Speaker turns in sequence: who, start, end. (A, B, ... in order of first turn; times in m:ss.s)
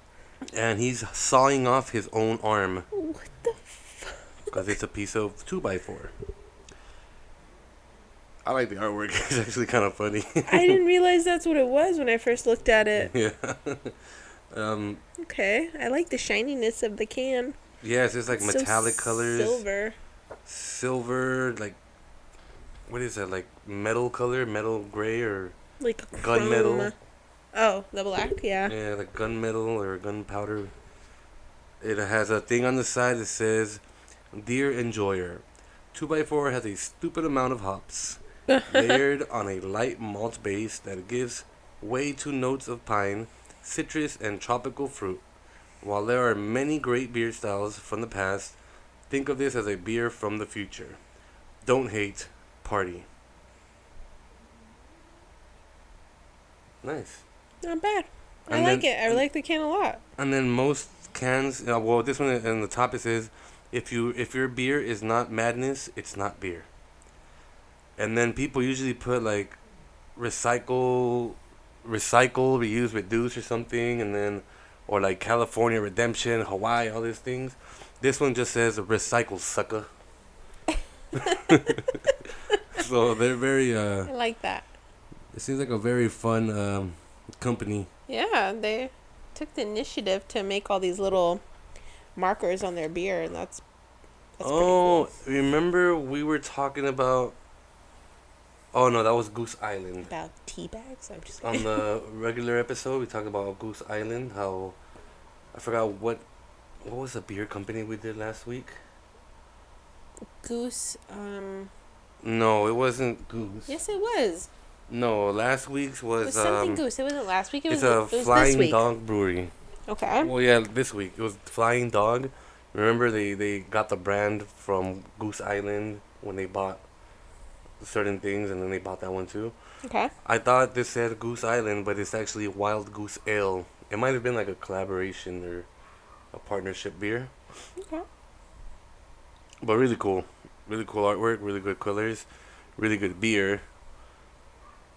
0:00.5-0:02.8 A
0:02.9-0:04.6 B
0:04.5-0:06.1 A
0:08.4-0:10.8 A
0:10.5-0:13.1 B
0:12.9-0:14.0 A
0:14.5-0:15.0 A
0:15.2-0:17.6 B
0:17.8-0:19.6 A
0:18.3-0:20.0 B
0:20.4-0:21.8 A
0:22.9-0:25.6 A
0:25.8-0:26.9 B
0:26.2-0:26.9 A
0:27.5-0:28.7 B
0:28.6-0:30.7 A
0:31.8-0:33.8 A
0:34.3-0:45.2 A
0:38.5-0:39.0 B
0:45.8-0:48.6 A
0:49.1-0:51.0 A
0:51.6-0:53.1 A
0:56.8-0:57.2 A
0:57.6-1:00.0 B
0:58.5-0:59.2 A
1:00.2-1:06.7 A
1:08.0-1:09.6 A
1:10.2-1:19.9 A
1:21.1-1:24.1 A
1:21.2-1:21.6 B
1:22.5-1:22.8 B
1:24.1-1:24.6 B
1:25.3-1:27.9 A
1:28.1-1:31.4 B
1:32.2-1:33.6 B
1:34.4-1:35.1 B
1:34.4-1:37.4 A
1:38.7-1:40.1 A
1:40.0-1:41.8 B
1:41.4-1:44.8 A
1:45.5-1:46.2 A
1:46.8-1:48.7 A
1:50.4-1:51.7 B
1:52.2-1:53.8 A
1:53.7-1:54.5 B
1:54.9-1:56.8 A
1:56.2-1:58.8 B
1:57.7-1:59.5 A
1:59.9-2:00.3 B
2:00.2-2:06.8 A
2:07.8-2:09.5 A
2:09.8-2:10.1 B
2:10.2-2:15.7 A
2:16.3-2:17.3 A
2:17.8-2:18.0 B
2:19.6-2:23.6 A